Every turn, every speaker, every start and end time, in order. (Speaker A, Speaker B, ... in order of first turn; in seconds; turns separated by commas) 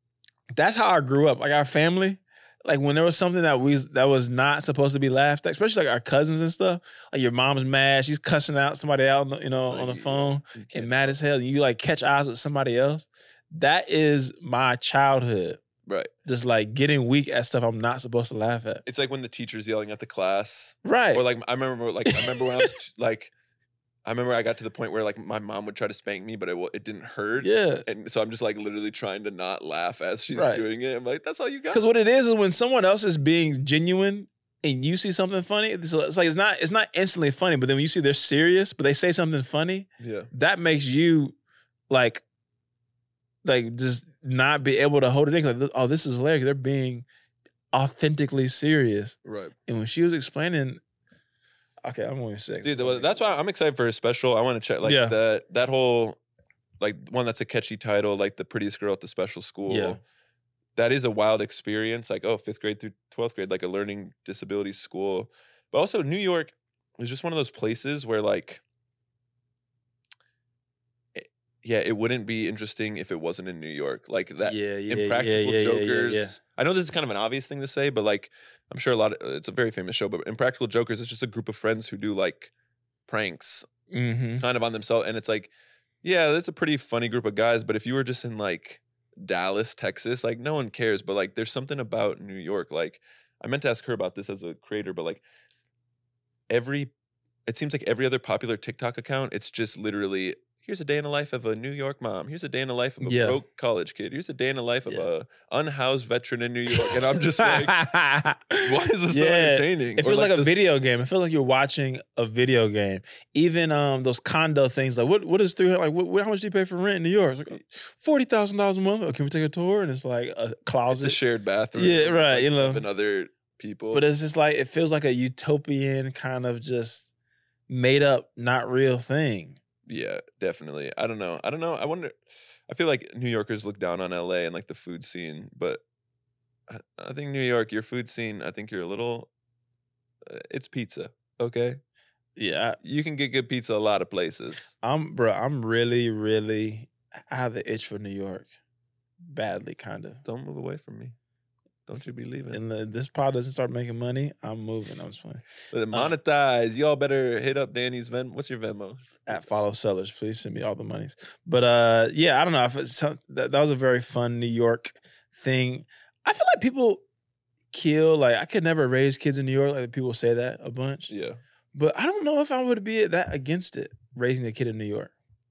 Speaker A: 0.5-15.6, Speaker B: 9.7-11.2, Speaker B: 15.8-16.1, Speaker A: 16.2-18.8, Speaker B: 18.9-23.3, Speaker A: 20.8-21.2, Speaker A: 22.1-22.7, Speaker B: 24.0-31.8, Speaker A: 27.4-27.8, Speaker A: 30.3-30.6, Speaker A: 31.7-41.3, Speaker B: 40.0-40.3, Speaker A: 41.9-42.2, Speaker A: 43.4-47.0, Speaker A: 47.7-50.8, Speaker B: 49.2-49.5, Speaker A: 51.8-53.3, Speaker B: 52.6-56.2, Speaker A: 54.8-55.1, Speaker B: 56.8-60.0, Speaker A: 59.7-60.0, Speaker B: 60.8-68.6, Speaker B: 71.2-82.5, Speaker A: 74.4-76.3, Speaker B: 83.1-83.7, Speaker A: 83.9-84.4, Speaker B: 84.4-85.5, Speaker B: 86.0-95.2, Speaker B: 96.5-96.9, Speaker B: 97.5-107.8, Speaker A: 103.0-103.4, Speaker A: 106.7-121.2, Speaker B: 108.6-110.5, Speaker B: 120.9-124.0, Speaker A: 121.7-122.8, Speaker A: 123.9-127.1, Speaker A: 127.7-129.6, Speaker B: 129.9-135.8, Speaker B: 136.7-139.3, Speaker B: 140.2-141.8, Speaker A: 142.3-142.8, Speaker B: 142.8-144.7, Speaker A: 144.8-148.5, Speaker A: 149.2-150.2, Speaker B: 150.2-151.1, Speaker B: 151.9-152.6, Speaker A: 152.5-156.2, Speaker B: 155.7-159.4, Speaker A: 159.3-167.0, Speaker A: 167.7-171.1, Speaker B: 171.1-171.4, Speaker A: 171.7-175.1